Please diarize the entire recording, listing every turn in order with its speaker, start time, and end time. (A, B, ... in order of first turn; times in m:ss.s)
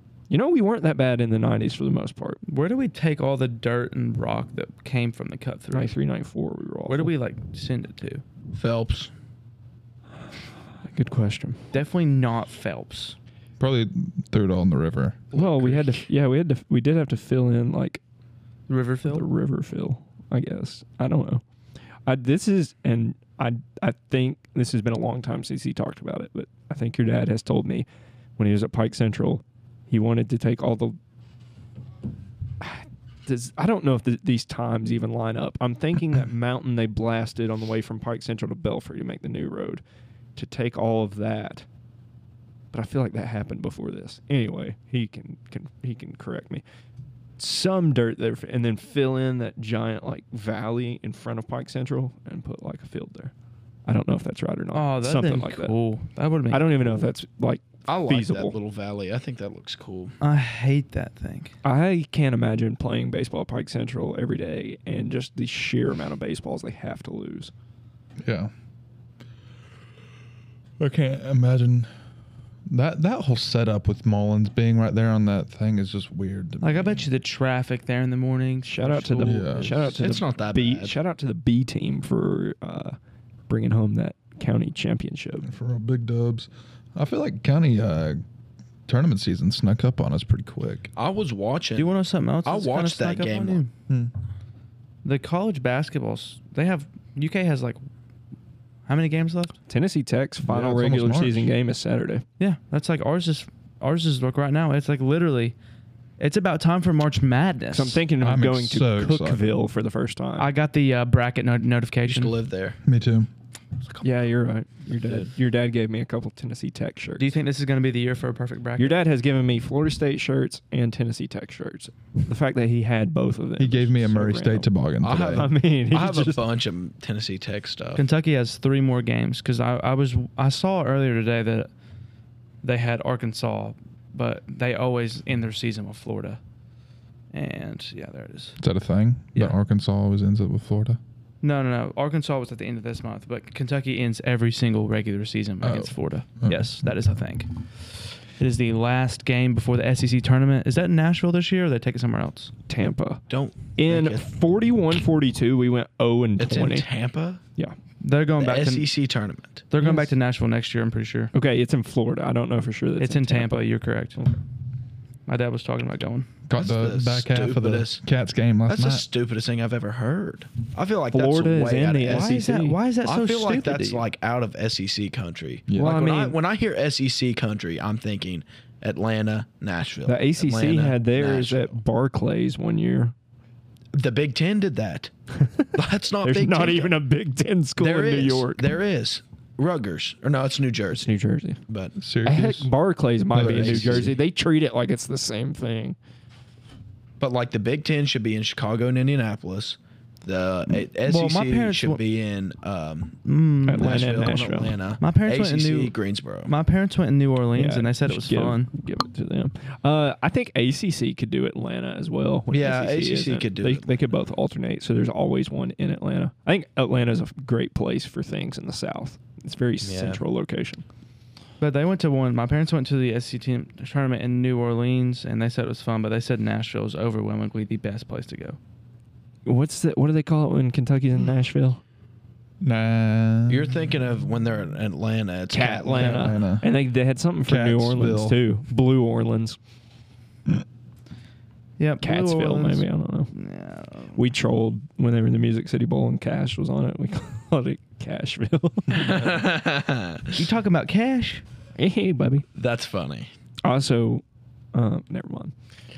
0:00.3-0:02.4 A
0:02.4-0:05.9 B
0:05.7-0:07.1 A
0:06.9-0:08.2 B
0:08.5-0:09.1 C
0:10.8-0:11.6 A
0:11.7-0:13.2 B
0:13.6-0:15.3 D
0:15.3-0:16.0 C
0:15.3-0:18.0 A
0:18.7-0:19.2 B
0:19.1-0:21.4 A
0:22.0-0:27.8 A
0:28.4-0:31.0 A
0:32.6-0:39.8 A
0:40.4-0:41.6 A
0:42.7-0:46.6 A
0:47.4-0:53.3 A
0:53.8-0:55.7 A
0:54.7-0:56.9 B
0:56.5-0:58.6 A
0:57.8-1:00.2 C
1:00.2-1:01.5 B
1:01.6-1:07.5 A
1:08.2-1:08.5 D
1:10.8-1:11.9 D
1:12.7-1:17.1 D
1:16.6-1:20.0 B
1:18.6-1:23.0 A
1:19.2-1:19.8 D
1:19.8-1:21.0 C
1:23.5-1:25.5 A
1:25.4-1:28.2 D
1:28.8-1:30.9 D
1:31.0-1:31.9 C
1:31.8-1:33.7 B
1:32.4-1:33.6 C
1:35.0-1:37.8 B
1:38.9-1:39.6 B
1:39.7-1:42.2 A
1:40.4-1:41.5 D
1:42.4-1:45.5 B
1:46.2-1:48.0 B
1:47.7-1:50.5 A
1:48.2-1:49.4 D
1:50.4-1:52.3 B
1:52.0-1:52.8 C
1:52.8-1:53.3 D
1:54.0-1:57.3 A
1:57.2-1:59.0 B
1:58.8-2:04.7 A
2:03.6-2:05.5 D
2:05.0-2:08.0 C
2:05.3-2:06.4 A
2:08.0-2:11.7 B
2:12.6-2:16.4 B
2:17.3-2:18.6 B
2:18.6-2:21.0 D
2:21.4-2:27.6 B
2:25.6-2:26.8 D
2:28.4-2:32.5 B
2:32.7-2:33.2 A
2:33.3-2:34.2 C
2:33.8-2:36.9 A
2:36.4-2:37.4 C
2:38.0-2:38.9 B
2:38.4-2:39.6 C
2:39.7-2:41.3 B
2:39.8-2:40.1 A
2:41.3-2:43.6 A
2:43.0-2:44.2 B
2:45.3-2:46.3 B
2:46.5-2:49.0 D
2:46.5-2:48.0 C
2:48.7-2:52.4 C
2:51.1-2:52.8 A
2:52.1-2:54.0 B
2:53.0-3:01.8 C
2:55.7-2:56.1 D
2:55.8-2:56.4 A
3:00.0-3:03.1 A
3:03.9-3:05.1 C
3:05.4-3:08.7 A
3:05.7-3:07.0 C
3:07.8-3:11.1 C
3:11.0-3:11.6 A
3:11.7-3:11.9 C
3:12.0-3:12.7 D
3:12.2-3:16.0 A
3:13.3-3:14.1 D
3:13.3-3:14.2 C
3:17.2-3:23.2 C
3:21.0-3:22.0 B
3:23.2-3:24.3 B
3:23.6-3:24.8 A
3:23.8-3:26.5 C
3:25.0-3:28.7 B
3:27.6-3:40.8 A
3:32.5-3:34.0 C
3:39.8-3:40.2 C
3:41.6-3:48.6 B
3:49.4-3:51.8 A
3:52.6-3:53.9 D
3:53.5-3:56.3 C
3:55.5-3:59.6 A
3:56.1-3:56.7 D
3:57.4-3:58.4 D
4:01.8-4:04.2 B
4:02.0-4:03.3 A
4:04.2-4:09.3 A
4:08.9-4:10.4 C
4:10.3-4:11.4 B
4:11.8-4:12.4 A
4:12.5-4:13.3 C
4:13.6-4:15.5 A